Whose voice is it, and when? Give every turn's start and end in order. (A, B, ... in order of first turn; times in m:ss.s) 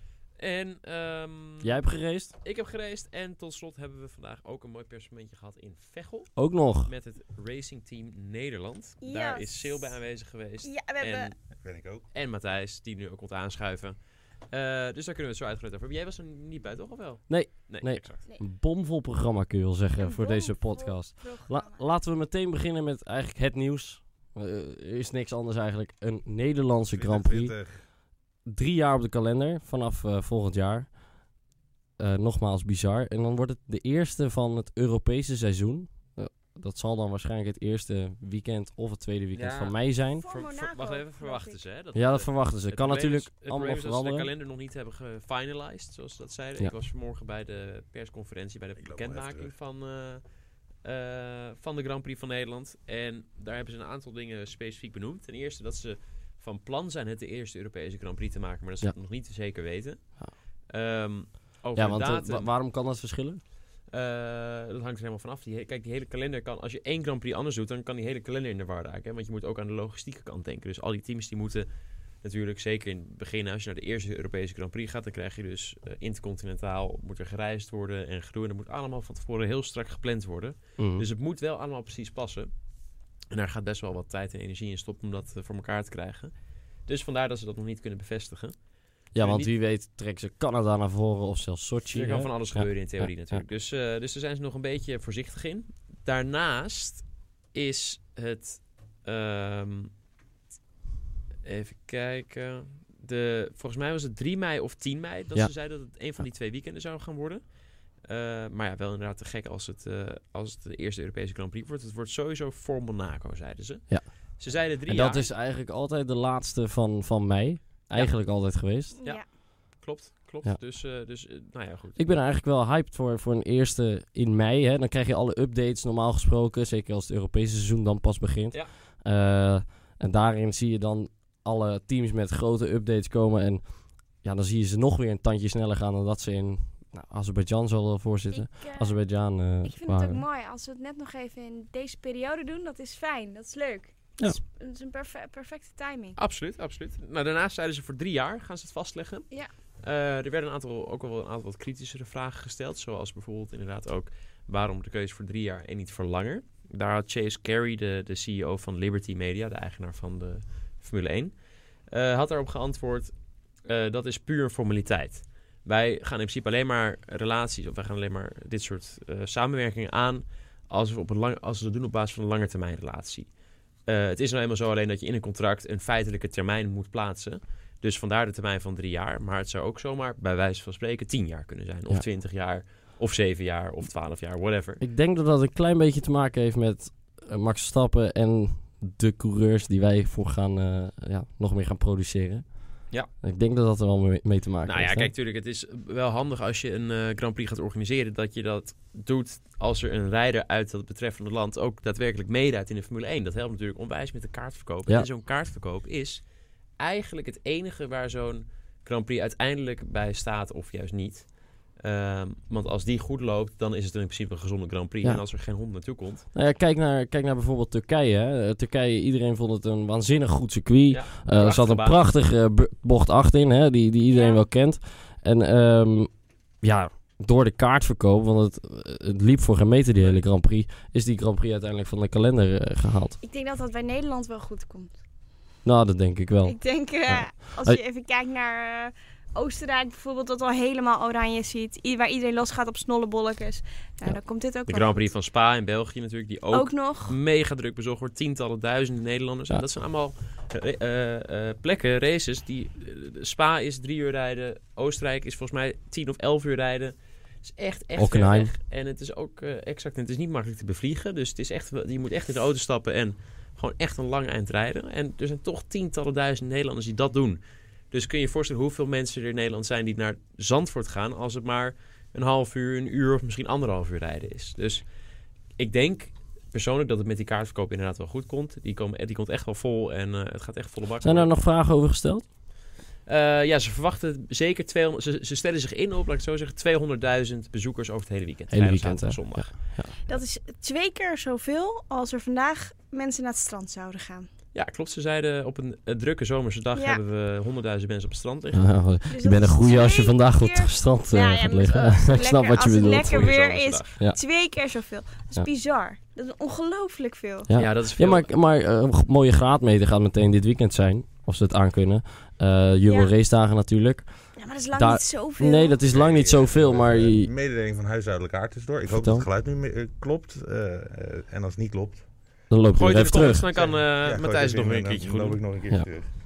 0:00.4-0:01.7 A
0:01.6-0:02.3 B
0:02.4-0:06.3 A
0:06.4-0:06.9 B
0:06.8-0:11.4 A
0:09.0-0:10.0 C
0:10.6-0:11.3 C
0:11.6-0:12.1 D
0:12.1-0:14.0 A
0:14.5-0:18.2 A
0:17.3-0:27.6 B
0:20.0-0:21.8 C
0:26.9-0:27.8 D
0:28.4-0:31.0 B
0:32.0-0:40.3 B
0:39.3-0:50.2 A
0:40.2-0:41.6 C
0:42.0-0:44.3 B
0:48.8-0:49.5 D
0:50.8-1:02.5 A
1:01.8-1:03.4 B
1:03.9-1:11.7 A
1:12.2-1:22.5 A
1:20.8-1:21.0 B
1:23.3-1:26.3 A
1:26.9-1:28.6 A
1:29.1-1:29.5 A
1:29.1-1:33.4 B
1:31.9-1:39.9 A
1:41.4-1:47.4 A
1:48.0-1:55.3 A
1:54.9-1:59.0 B
1:59.0-1:59.2 C
1:59.0-2:02.1 A
2:02.0-2:20.2 B
2:18.3-2:19.0 C
2:19.6-2:26.2 C
2:26.2-2:29.3 A
2:29.8-2:41.4 A
2:41.9-2:53.3 A
2:53.8-3:04.8 A
3:04.8-3:15.1 B
3:14.6-3:26.2 A
3:26.8-3:36.3 A
3:36.3-3:53.2 B
3:40.9-3:42.0 A
3:44.1-3:44.4 C
3:53.2-3:54.9 C
3:55.6-3:57.8 B
3:56.4-4:05.0 C
4:04.7-4:27.4 A
4:06.5-4:07.2 C
4:18.0-4:18.5 B
4:27.9-4:34.8 A
4:35.6-4:41.3 A
4:41.0-4:42.2 B
4:43.1-4:49.6 A
4:48.5-4:49.9 B
4:50.1-4:54.3 C
4:54.6-4:58.8 A
4:56.8-4:57.0 C
4:58.5-5:03.3 B
4:59.1-5:07.5 C
5:02.9-5:03.9 A
5:07.5-5:17.3 B
5:07.6-5:08.3 A
5:12.9-5:13.1 C
5:14.4-5:15.8 C
5:15.8-5:22.0 D
5:18.9-5:19.3 B
5:22.5-5:23.4 B
5:22.8-5:25.4 A
5:23.6-5:26.1 D